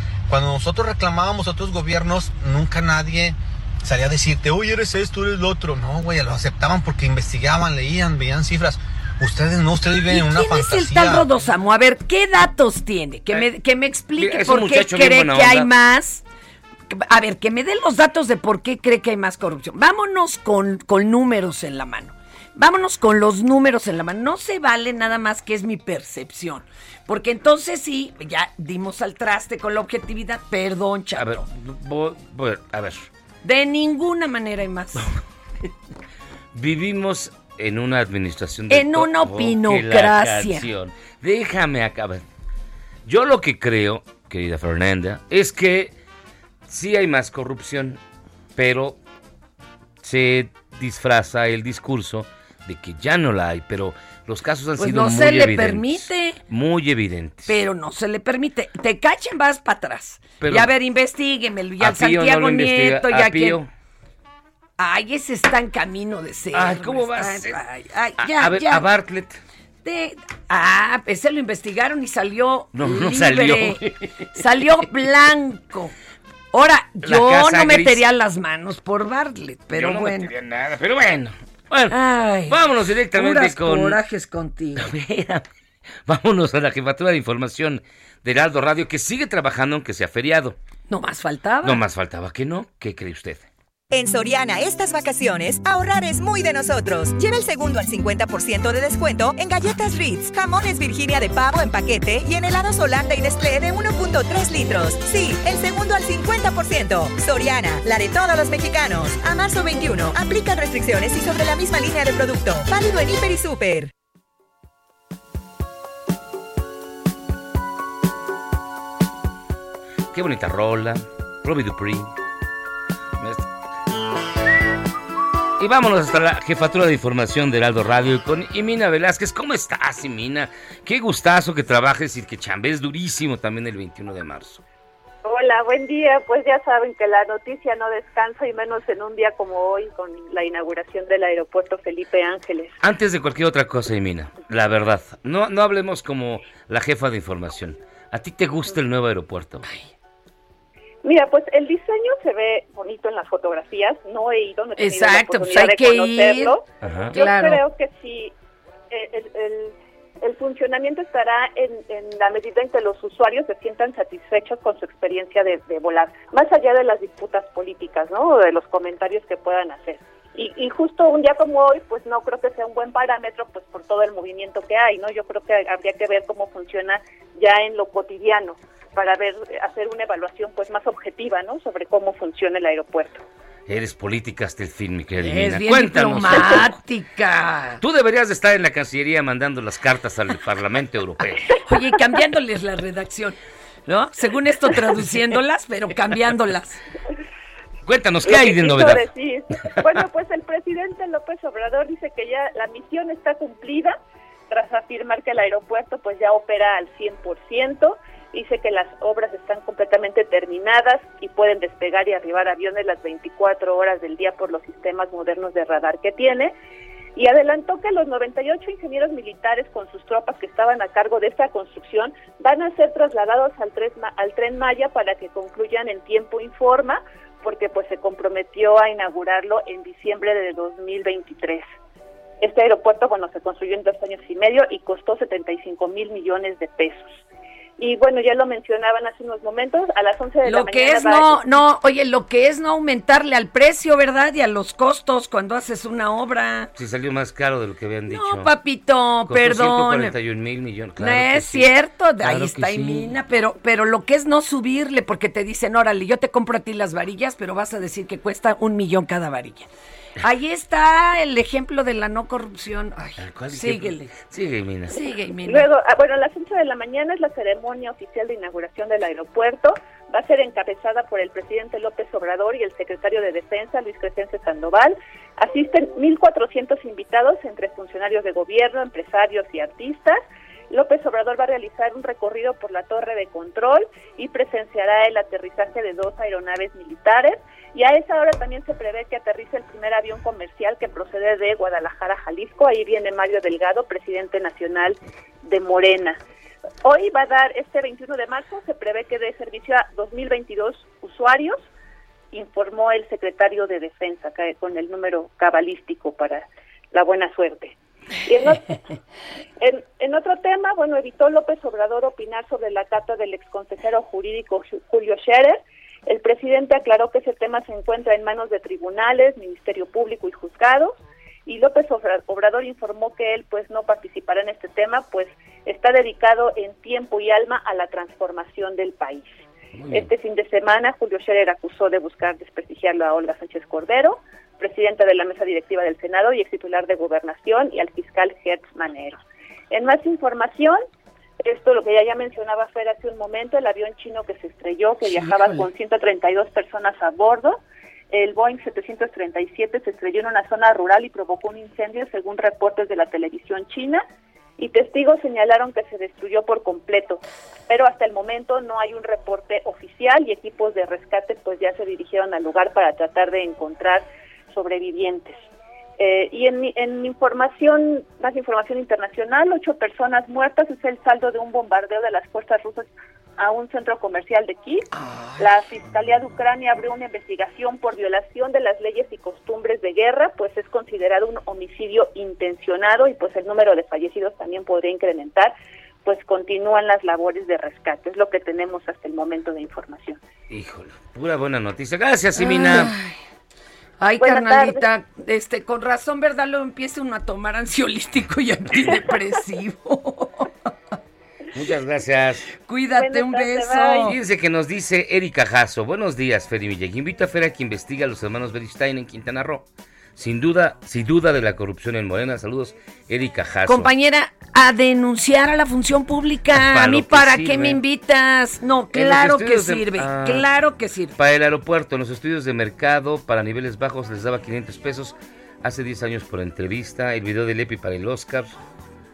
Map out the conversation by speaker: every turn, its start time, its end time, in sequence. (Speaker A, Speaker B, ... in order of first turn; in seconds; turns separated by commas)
Speaker A: 0.3-11.3, Speaker B: 10.1-16.2, Speaker C: 14.2-15.7, Speaker B: 16.9-31.4, Speaker C: 31.2-33.1, Speaker B: 33.4-35.1, Speaker C: 36.5-42.2, Speaker B: 38.7-40.7, Speaker C: 43.1-45.9, Speaker C: 46.7-48.0, Speaker C: 48.6-49.0, Speaker C: 50.0-57.6, Speaker B: 54.8-56.4, Speaker B: 57.5-63.6, Speaker C: 60.4-60.7, Speaker C: 61.8-63.7, Speaker B: 64.8-68.8, Speaker C: 66.5-67.6, Speaker C: 68.2-69.4, Speaker B: 69.8-73.8, Speaker C: 72.8-74.1, Speaker B: 74.3-75.9, Speaker B: 76.5-80.3, Speaker C: 77.0-78.0, Speaker C: 79.8-82.0, Speaker B: 81.9-82.6, Speaker C: 82.5-84.0, Speaker B: 83.1-84.9, Speaker C: 84.8-85.5, Speaker C: 86.1-90.6, Speaker B: 90.9-91.8, Speaker C: 91.6-93.5, Speaker D: 93.9-113.9, Speaker C: 120.1-122.1, Speaker C: 123.2-123.5, Speaker C: 125.6-134.6, Speaker E: 135.2-142.7, Speaker C: 142.8-149.7, Speaker E: 151.0-158.3, Speaker B: 154.8-156.5, Speaker C: 156.8-157.2, Speaker B: 157.1-157.6, Speaker E: 158.9-183.2, Speaker C: 183.7-186.7, Speaker B: 185.2-187.8, Speaker C: 187.8-191.6, Speaker B: 191.7-196.8, Speaker C: 197.8-199.1, Speaker E: 198.2-204.0, Speaker E: 204.5-216.5, Speaker E: 217.2-231.6, Speaker E: 232.4-237.2, Speaker E: 237.8-241.4, Speaker B: 240.4-246.7, Speaker C: 246.8-248.5, Speaker B: 248.1-250.1, Speaker C: 249.3-251.7, Speaker B: 251.0-259.7, Speaker C: 252.2-253.1, Speaker B: 260.2-264.1, Speaker C: 263.2-265.0, Speaker B: 264.9-265.7, Speaker E: 265.5-280.2, Speaker E: 280.7-296.2, Speaker E: 296.9-301.6, Speaker E: 302.3-307.7, Speaker E: 308.2-308.8, Speaker E: 309.6-320.9, Speaker E: 321.5-329.4, Speaker C: 329.8-330.1, Speaker E: 329.9-339.2, Speaker E: 339.7-340.8, Speaker E: 341.4-347.6, Speaker E: 348.1-354.0, Speaker E: 354.6-365.4, Speaker E: 366.0-374.9, Speaker E: 375.4-385.5, Speaker E: 386.1-390.2, Speaker C: 390.5-392.9, Speaker B: 392.4-393.2, Speaker B: 394.0-400.5, Speaker E: 394.2-394.8, Speaker C: 401.5-402.6, Speaker B: 402.6-404.2, Speaker E: 403.0-404.1, Speaker C: 404.0-409.6, Speaker C: 410.2-413.9, Speaker B: 413.7-421.2, Speaker C: 416.5-417.8, Speaker C: 418.9-420.5, Speaker C: 421.2-428.6